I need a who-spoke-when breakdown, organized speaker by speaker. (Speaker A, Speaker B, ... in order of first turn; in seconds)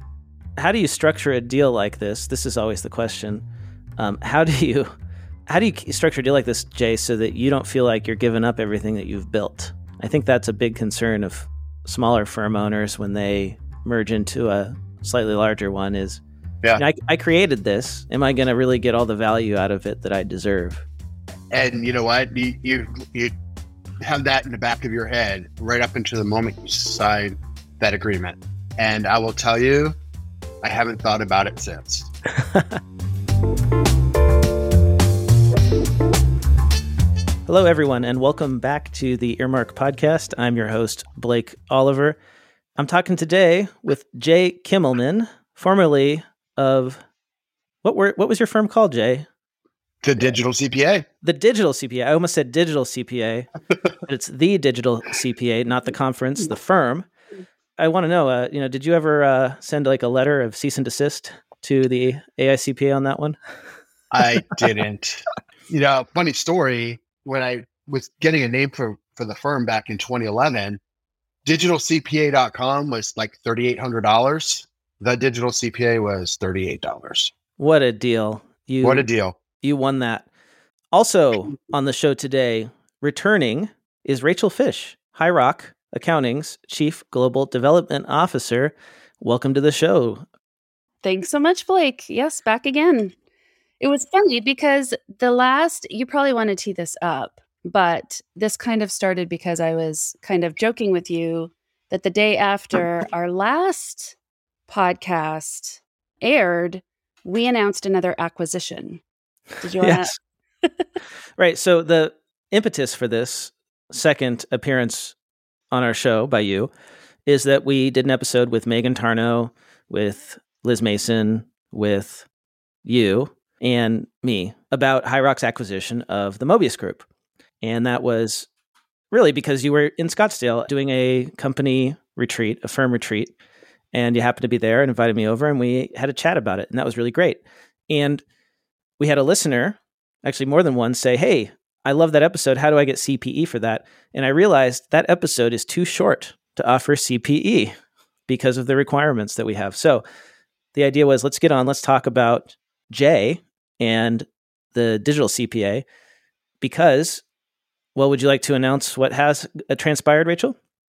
Speaker A: 0.6-3.4, 4.0-4.9, 5.5-16.2, 16.8-20.8, 32.4-32.8, 37.5-42.2, 42.8-47.0, 47.8-49.3, 51.2-53.5, 54.0-57.1, 57.8-63.4, 77.6-79.1, 79.6-80.3, 80.9-90.2, 109.8-110.1, 111.4-115.1, 115.7-116.7, 117.2-122.3, 122.8-127.0, 127.6-128.5, 129.1-133.3, 133.9-138.2, 139.0-147.7, 148.3-150.0, 150.7-155.8, 156.6-157.2, 157.9-160.6
Speaker B: 21.5-23.3, 24.0-29.9, 30.6-32.1, 50.0-51.0, 64.1-70.8, 71.4-77.3, 78.8-79.4
Speaker C: 91.0-93.1, 93.8-104.1, 104.7-109.0, 109.6-110.1